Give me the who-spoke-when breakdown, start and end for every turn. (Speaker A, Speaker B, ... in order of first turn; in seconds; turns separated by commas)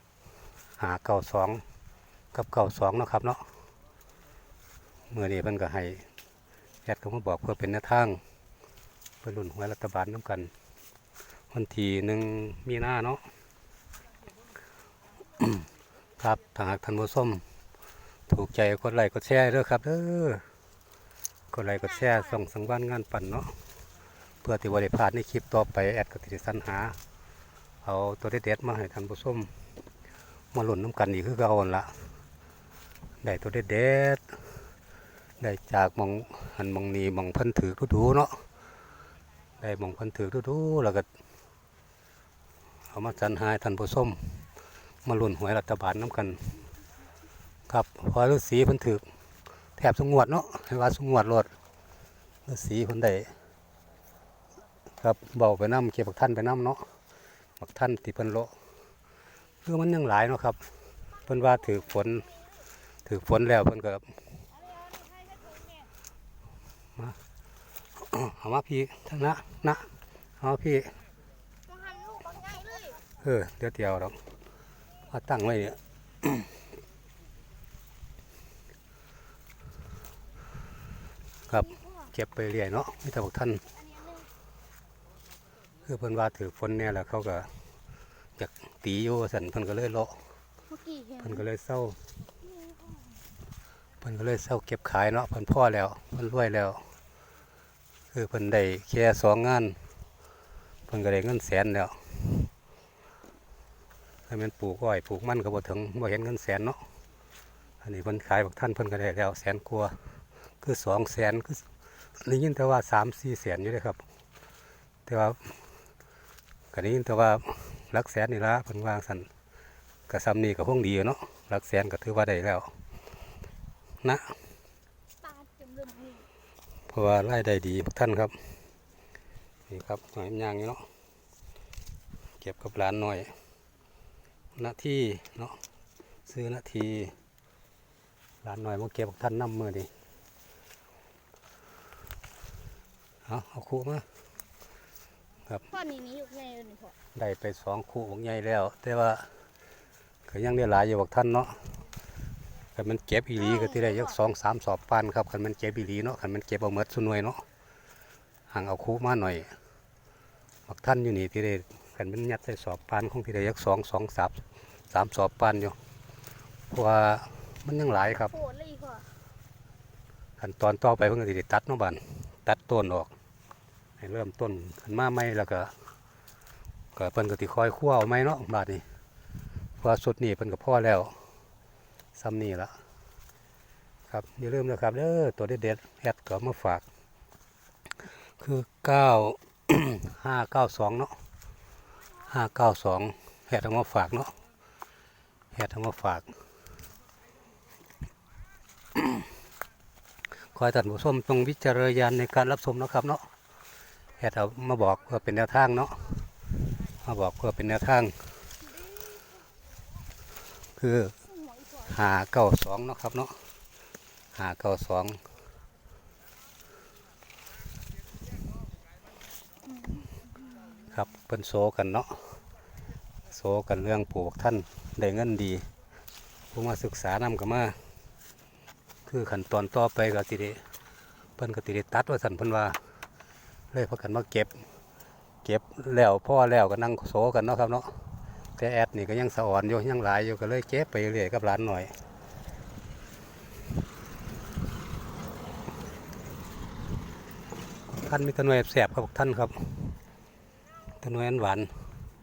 Speaker A: 0.8-1.6, Speaker A: 2.3-3.5, Speaker A: 5.1-6.0, Speaker A: 6.8-8.2, Speaker A: 9.2-10.5, Speaker A: 11.5-13.2, Speaker A: 15.4-15.7, Speaker A: 16.2-17.4, Speaker A: 18.3-20.4, Speaker A: 21.5-23.6, Speaker A: 24.4-27.0, Speaker A: 27.8-29.5, Speaker A: 30.5-32.0, Speaker A: 33.2-34.4, Speaker A: 35.4-38.5, Speaker A: 39.6-41.1, Speaker A: 42.9-44.4, Speaker A: 45.0-46.5, Speaker A: 47.7-49.1, Speaker A: 49.8-51.5, Speaker A: 52.5-53.3, Speaker A: 55.0-56.9, Speaker A: 57.6-58.5, Speaker A: 59.6-60.6, Speaker A: 61.2-62.2, Speaker A: 63.0-64.1, Speaker B: 64.6-65.7, Speaker A: 68.0-71.0, Speaker B: 71.7-73.0, Speaker A: 73.2-74.2, Speaker A: 75.1-76.5, Speaker A: 81.5-83.6, Speaker B: 81.5-82.1, Speaker B: 83.7-84.3, Speaker A: 85.8-87.5, Speaker A: 88.4-90.2, Speaker B: 90.7-91.4, Speaker A: 91.2-92.0, Speaker B: 92.4-93.2, Speaker A: 94.0-96.9, Speaker A: 98.1-99.8, Speaker A: 100.9-102.5, Speaker A: 104.3-106.8, Speaker A: 107.8-110.0, Speaker A: 110.6-111.6, Speaker A: 112.2-114.0, Speaker A: 115.1-115.6, Speaker A: 116.7-119.3, Speaker A: 120.1-122.7, Speaker A: 124.0-124.3, Speaker B: 125.2-126.3, Speaker A: 126.9-128.3, Speaker A: 129.7-130.8, Speaker A: 132.4-133.3, Speaker A: 134.6-135.6, Speaker A: 136.3-137.1, Speaker A: 138.4-139.9, Speaker A: 143.2-144.1, Speaker B: 145.7-146.9, Speaker A: 147.1-149.3, Speaker A: 150.3-151.8, Speaker A: 152.7-157.4, Speaker B: 153.4-154.2, Speaker A: 158.5-159.5, Speaker A: 160.7-165.8, Speaker A: 166.7-168.3, Speaker B: 168.2-169.1, Speaker A: 170.4-173.1, Speaker A: 174.0-175.7, Speaker A: 176.9-178.8, Speaker A: 179.8-181.2, Speaker A: 182.1-182.8, Speaker A: 184.1-186.8, Speaker A: 188.4-191.2, Speaker A: 192.3-194.3, Speaker A: 195.5-196.3, Speaker A: 200.5-203.3, Speaker A: 204.2-206.2, Speaker A: 206.9-208.3, Speaker B: 208.7-209.4, Speaker A: 210.8-211.2, Speaker B: 211.2-211.9, Speaker A: 211.8-213.4, Speaker A: 214.3-215.2, Speaker B: 219.6-220.8, Speaker A: 220.9-222.4, Speaker A: 223.3-225.7, Speaker A: 226.5-227.8, Speaker A: 229.1-230.6, Speaker A: 231.4-232.8, Speaker A: 233.7-234.7, Speaker A: 235.4-238.0, Speaker A: 238.6-241.9, Speaker A: 247.9-250.0, Speaker A: 251.0-251.8